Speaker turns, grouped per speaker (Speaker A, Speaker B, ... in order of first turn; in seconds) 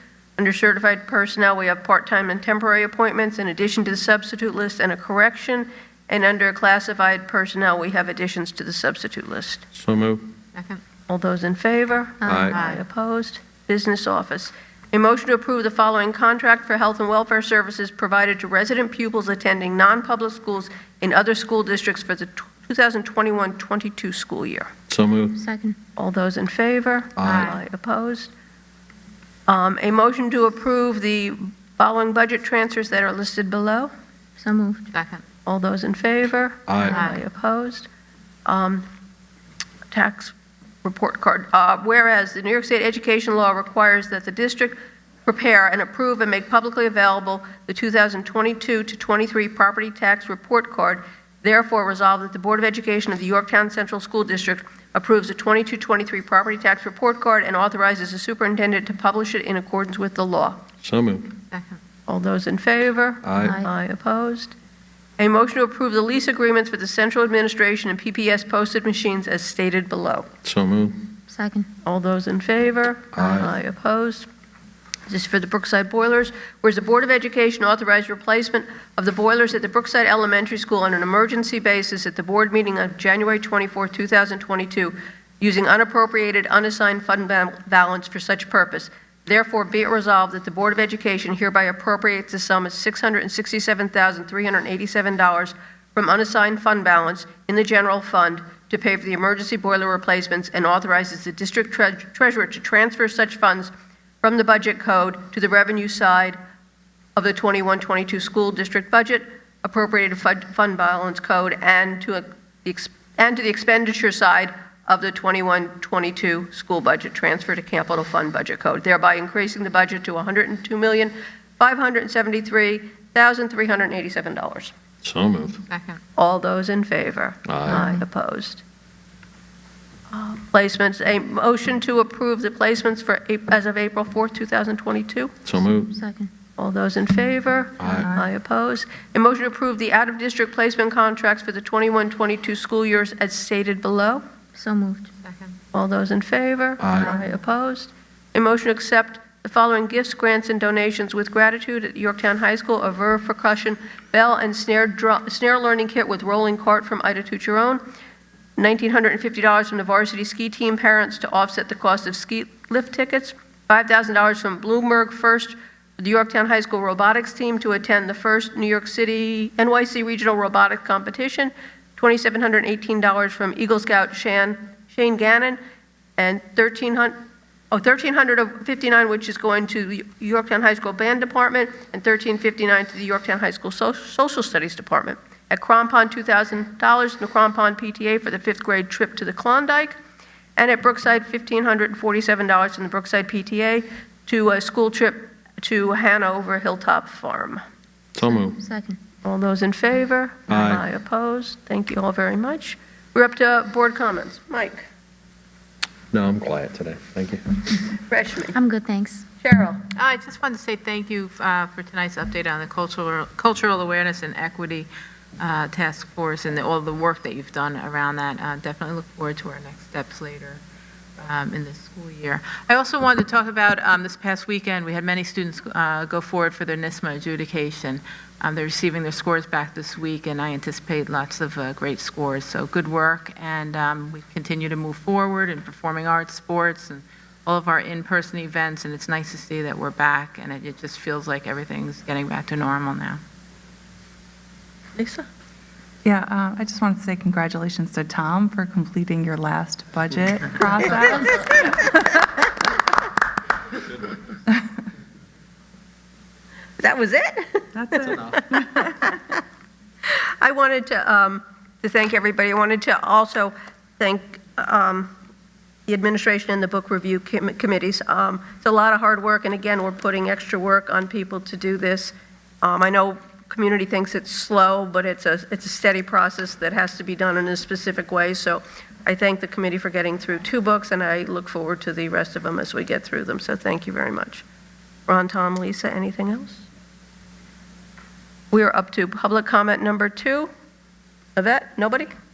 Speaker A: 0.4-9.7, 11.1-24.7, 26.0-28.3, 29.5-33.9, 35.5-37.9, 38.5-38.9, 39.9-60.6, 62.1-64.5, 65.2-70.3, 71.8-74.3, 75.1-106.4, 107.2-124.7, 126.2-128.6, 130.1-135.4, 136.6-144.2, 145.7-157.8, 158.6-175.6, 176.2-177.2, 177.7-190.0, 190.6-197.6, 199.2-204.9, 208.1-208.6, 209.4-209.8, 245.0-245.3, 251.0-252.1, 256.8-259.4, 260.4-265.1, 265.9-284.4, 285.1-286.7, 288.5-290.5, 291.4-292.1
Speaker B: 9.7-10.2, 12.2-12.6, 24.9-25.4, 27.2-27.5, 36.7-37.0, 60.8-61.4, 63.2-63.6, 70.4-71.1, 73.2-73.5, 125.0-125.6, 127.5-127.9, 135.4-135.9, 137.8-138.1, 146.8-147.2, 198.2-198.6, 200.5-200.8, 206.1-207.5, 258.1-258.4
Speaker C: 10.6-10.8, 12.5-12.8, 27.2-27.5, 34.9-35.2, 37.0-37.2, 61.5-61.8, 125.7-126.0, 145.2-145.6, 209.9-220.6, 221.2-243.2
Speaker D: 12.2-12.5, 25.4-25.8, 34.4-34.8, 71.3-71.7, 136.0-136.3, 144.6-145.0, 198.6-199.0, 208.6-209.2
Speaker E: 246.0-251.9, 257.8-258.1